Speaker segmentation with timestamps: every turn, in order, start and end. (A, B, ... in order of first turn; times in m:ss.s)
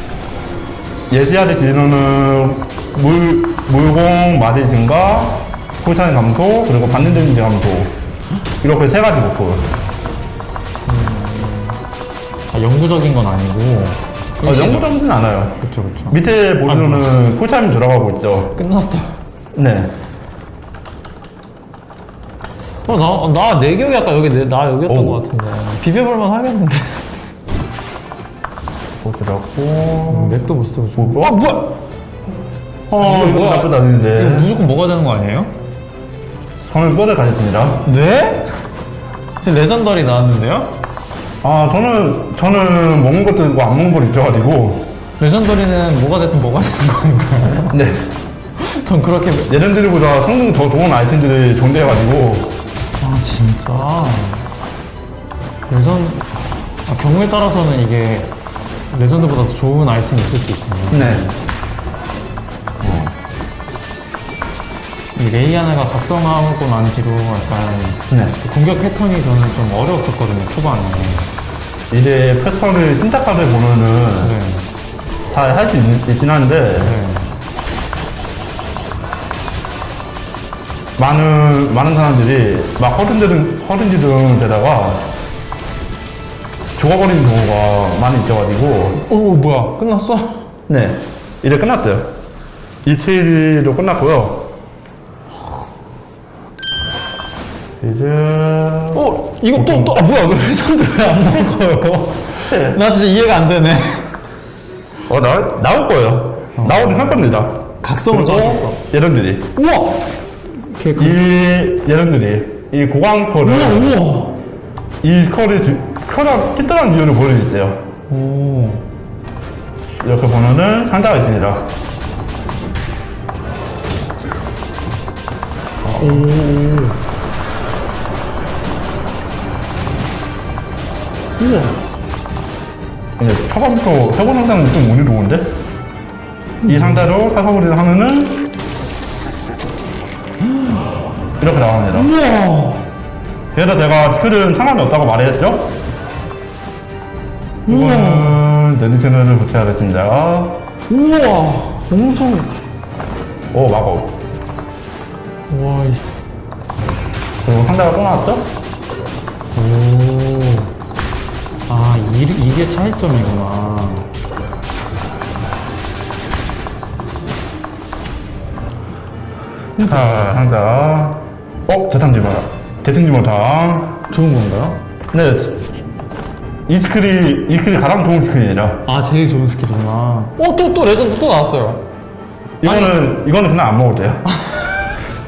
0:01.1-0:08.0 A
0:08.6-0:09.7 A
0:10.9-0:11.8 B
0:12.5-0:14.9 B
0:14.4-0:15.6 A
0:15.6-0:17.1 B
0:16.1-0:18.6 A
0:18.5-0:19.2 B
0:19.5-0:19.9 A
0:22.8-0:27.3 B
0:24.9-0:25.2 A
0:29.0-0:30.4 A
0:30.1-0:31.8 B
0:31.0-0:31.4 A
0:32.9-0:34.5 A
0:33.0-0:35.5 B
0:36.7-0:37.8 A
0:37.8-0:38.5 B
0:39.4-0:40.8 B
0:41.4-0:44.9 A
0:45.2-0:47.8 B
0:47.7-0:48.1 A
0:48.6-0:49.5 B
0:49.5-0:52.6 A
0:53.0-0:54.5 B
0:55.7-0:58.4 B
0:58.9-1:01.4 B
1:00.9-1:01.3 A
1:02.8-1:03.1 A
1:05.2-1:11.3 B
1:08.1-1:08.4 A
1:11.9-1:14.3 A
1:14.2-1:14.7 B
1:15.3-1:17.0 A
1:16.8-1:17.4 B
1:21.0-1:25.1 A
1:26.8-1:29.0 A
1:28.9-1:30.5 B
1:30.7-1:32.2 A
1:32.8-1:34.5 A
1:37.8-1:40.0 A
1:38.9-1:44.2 B
1:42.5-1:42.8 A
1:45.1-1:49.5 A
1:46.6-1:48.8 B
1:49.6-1:51.2 B
1:51.0-1:54.0 A
1:53.4-1:54.4 B
1:55.0-1:57.8 A
1:58.1-1:58.8 B
2:00.0-2:01.7 A
2:05.8-2:06.3 A
2:06.0-2:07.0 B
2:11.4-2:11.8 B
2:13.2-2:15.6 A
2:16.6-2:17.0 B
2:16.7-2:18.5 A
2:21.4-2:22.1 A
2:21.9-2:22.8 B
2:23.5-2:25.7 A
2:27.7-2:28.4 B
2:27.7-2:30.6 A
2:30.9-2:32.6 B
2:33.5-2:34.2 A
2:35.5-2:36.0 B
2:37.4-2:38.5 A
2:39.6-2:40.7 B
2:41.7-2:44.1 B
2:49.8-2:54.0 A
2:49.8-2:50.4 B
2:54.1-2:54.8 B
2:55.1-2:55.7 A
2:56.7-2:58.8 A
2:58.9-3:01.8 B
3:02.6-3:04.3 A
3:02.6-3:03.0 B
3:04.3-3:04.9 B